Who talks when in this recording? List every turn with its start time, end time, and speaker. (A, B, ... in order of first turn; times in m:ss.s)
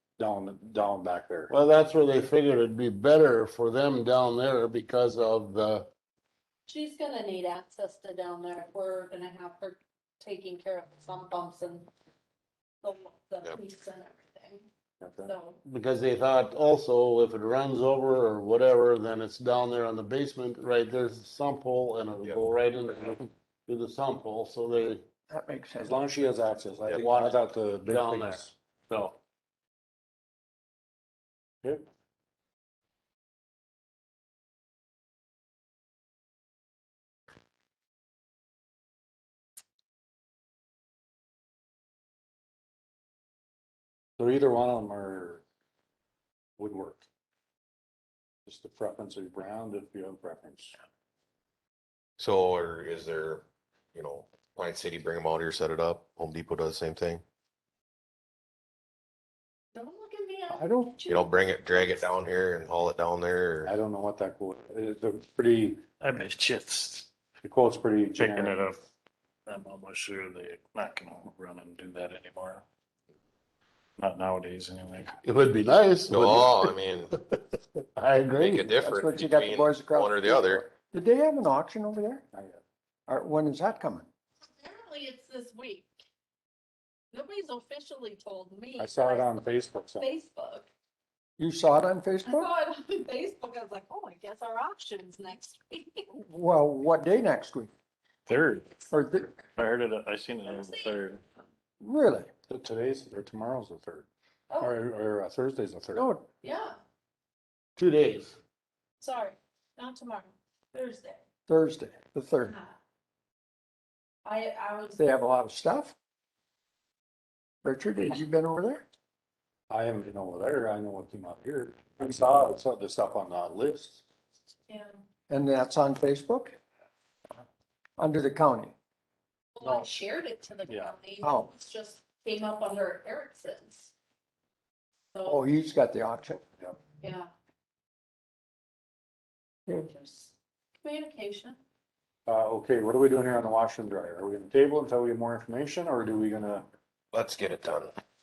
0:00.2-0:01.5 A
0:01.5-0:05.9 B
0:06.7-0:11.9 C
0:12.8-0:14.6 C
0:15.0-0:15.3 A
0:15.2-0:15.6 C
0:15.6-0:25.0 B
0:25.3-0:26.0 D
0:25.8-0:28.5 A
0:27.0-0:28.4 B
0:44.2-0:45.4 A
0:46.6-0:47.0 A
0:48.4-0:50.8 A
0:52.2-0:57.2 E
0:59.7-1:01.8 C
1:00.5-1:01.0 A
1:01.1-1:03.7 E
1:03.6-1:05.8 A
1:06.0-1:07.1 F
1:07.4-1:08.6 A
1:08.2-1:08.8 F
1:09.5-1:12.6 F
1:14.0-1:15.2 F
1:15.2-1:17.2 B
1:16.1-1:17.1 E
1:17.9-1:18.7 B
1:18.4-1:20.7 E
1:18.8-1:22.2 D
1:22.3-1:22.6 A
1:23.1-1:24.1 D
1:24.6-1:25.9 C
1:27.1-1:29.3 C
1:28.8-1:30.1 A
1:29.9-1:30.7 C
1:31.4-1:32.5 D
1:32.2-1:36.0 C
1:36.1-1:37.7 D
1:38.3-1:38.8 F
1:38.9-1:39.4 D
1:39.6-1:41.2 F
1:40.5-1:40.9 C
1:41.8-1:42.3 D
1:42.5-1:44.1 A
1:44.6-1:46.1 A
1:45.9-1:46.2 D
1:46.4-1:46.8 C
1:47.8-1:48.4 B
1:49.0-1:51.2 C
1:51.5-1:52.5 D
1:52.4-1:52.7 C
1:54.2-1:55.0 C
1:55.0-1:55.9 D
1:57.6-1:58.8 D
1:59.7-2:04.0 A
2:04.7-2:05.0 C
2:05.3-2:06.6 D
2:08.0-2:08.7 D
2:09.5-2:13.9 C
2:11.2-2:11.5 D
2:15.1-2:15.4 C
2:15.3-2:16.4 D
2:17.0-2:17.3 C
2:19.7-2:21.6 C
2:22.3-2:26.6 A
2:27.1-2:27.9 E